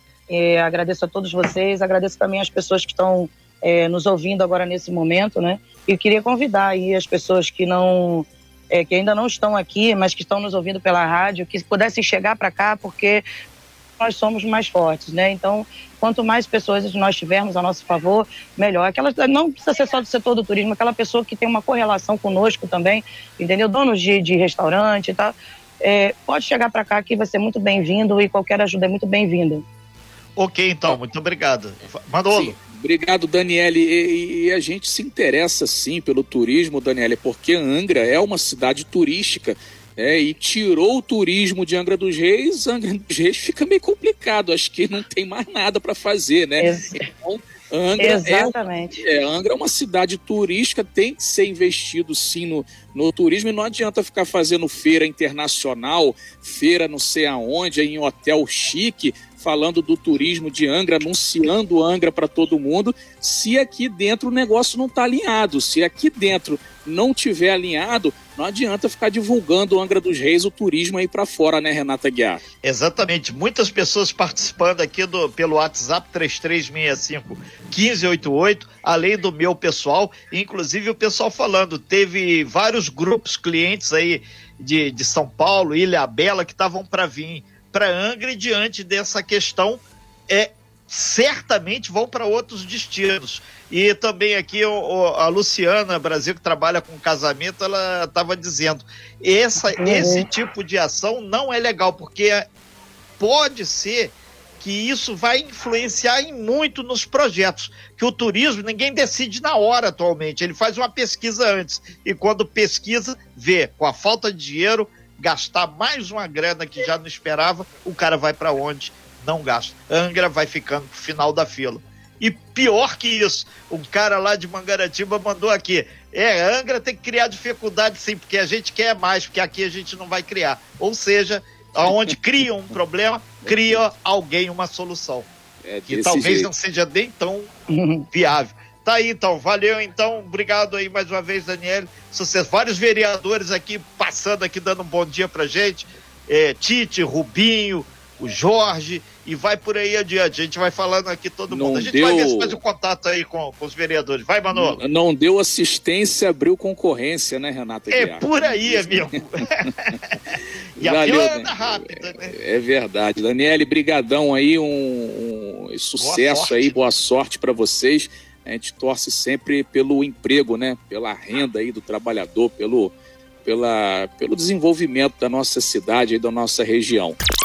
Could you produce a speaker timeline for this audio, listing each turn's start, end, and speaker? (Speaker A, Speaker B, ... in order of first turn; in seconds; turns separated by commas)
Speaker A: 0.3-13.2, Speaker A: 14.0-29.6, Speaker B: 30.4-32.5, Speaker C: 32.3-72.4, Speaker A: 46.6-47.0, Speaker A: 48.0-49.0, Speaker B: 72.6-102.4, Speaker A: 99.8-100.2, Speaker B: 103.2-135.3, Speaker C: 131.8-132.1, Speaker C: 135.6-136.5, Speaker B: 135.9-137.5, Speaker A: 137.7-138.1, Speaker B: 138.1-154.8, Speaker C: 151.5-152.6, Speaker C: 154.5-160.0, Speaker B: 157.9-159.7, Speaker B: 160.8-162.3, Speaker C: 160.8-172.9, Speaker B: 166.0-166.7, Speaker C: 173.4-177.2